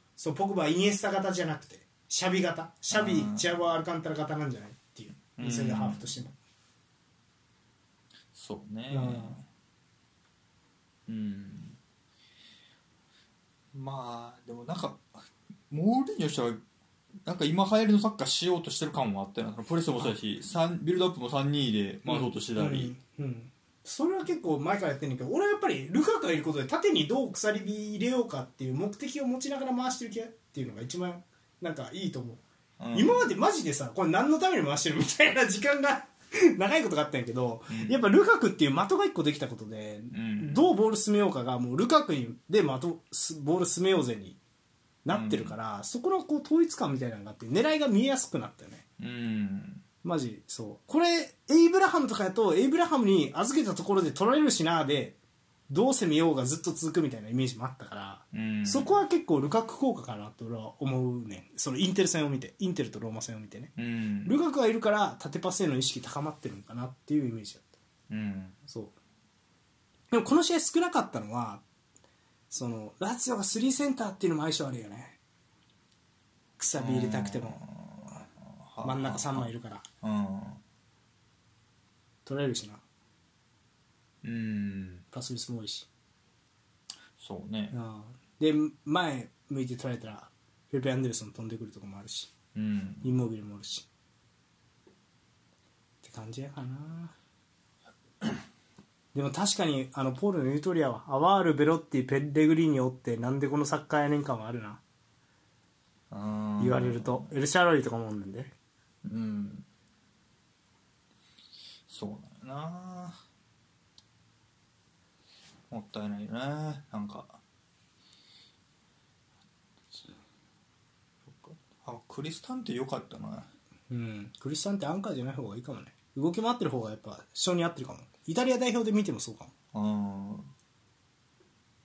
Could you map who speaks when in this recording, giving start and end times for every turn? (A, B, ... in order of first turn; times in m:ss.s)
0:00.2-0:06.4 A
0:02.9-0:03.5 B
0:05.4-0:06.0 B
0:08.3-0:09.4 B
0:08.9-0:09.4 A
0:11.1-0:11.8 B
0:13.7-0:15.2 B
0:15.7-0:16.6 B
0:17.2-0:22.9 B
0:22.1-0:32.4 A
0:32.8-0:33.3 B
0:32.9-0:44.4 A
0:37.7-0:38.0 B
0:40.1-0:40.6 B
0:45.0-0:48.8 A
0:45.1-0:45.6 B
0:49.0-0:49.8 B
0:50.0-0:55.2 A
0:55.7-1:03.7 A
0:58.3-0:58.9 B
1:03.8-1:04.4 B
1:04.2-1:07.8 A
1:08.1-1:08.6 B
1:08.7-1:08.9 A
1:10.1-1:11.6 A
1:12.5-1:15.2 A
1:16.6-1:17.6 A
1:16.8-1:19.5 B
1:18.8-1:19.8 A
1:20.0-1:20.6 B
1:22.3-1:22.8 A
1:24.2-1:25.0 B
1:25.1-1:25.9 A
1:27.2-1:27.8 B
1:27.7-1:32.3 A
1:32.6-1:33.1 B
1:33.0-1:33.9 A
1:36.0-1:37.1 A
1:39.1-1:44.8 A
1:46.1-1:47.3 B
1:46.6-1:48.5 A
1:49.0-1:49.7 B
1:51.9-1:53.2 B
1:55.7-1:57.4 B
2:01.3-2:03.5 B
2:03.9-2:09.5 A
2:09.7-2:10.5 B